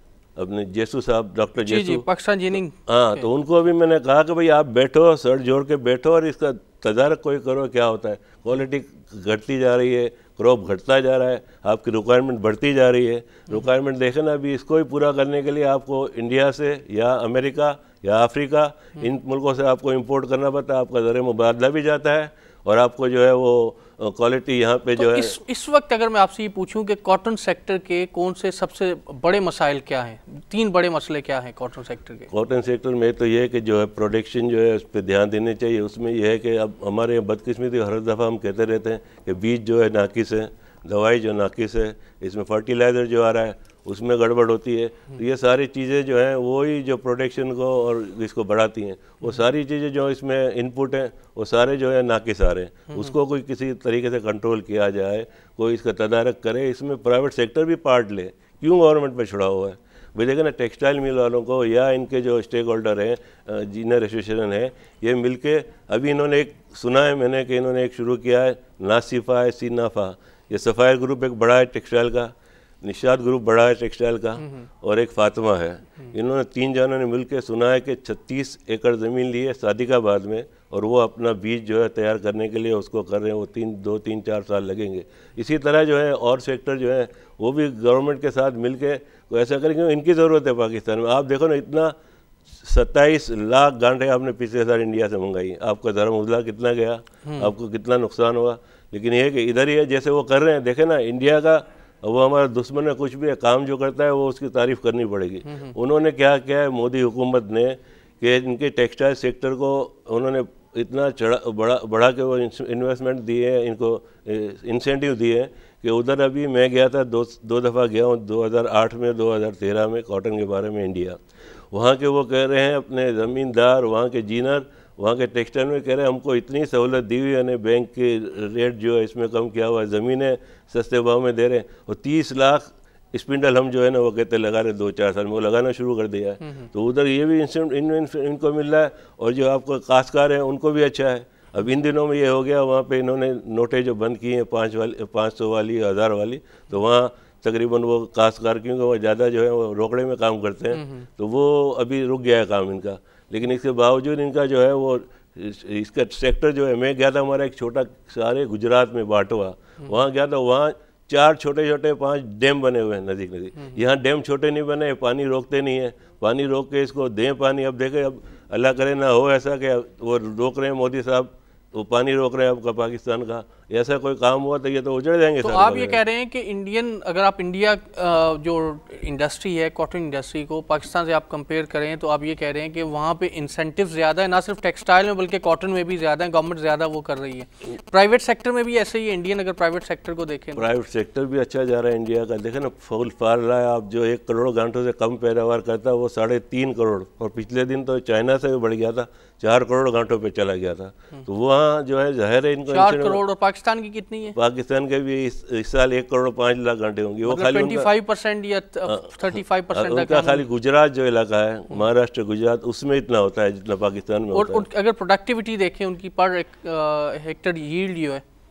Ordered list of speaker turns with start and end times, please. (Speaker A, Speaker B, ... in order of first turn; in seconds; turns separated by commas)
Speaker A: 0.3-2.0, Speaker B: 1.6-3.2, Speaker A: 2.9-25.4, Speaker B: 25.0-32.3, Speaker A: 32.3-91.9, Speaker A: 92.5-121.2, Speaker B: 97.2-97.5, Speaker B: 105.5-105.7, Speaker A: 121.7-176.0, Speaker B: 136.4-136.7, Speaker B: 150.7-151.1, Speaker B: 175.4-190.7, Speaker A: 190.6-203.2, Speaker B: 202.7-204.3, Speaker A: 204.3-207.9, Speaker B: 207.3-210.5, Speaker A: 208.9-209.1, Speaker A: 209.7-214.7, Speaker B: 214.3-218.2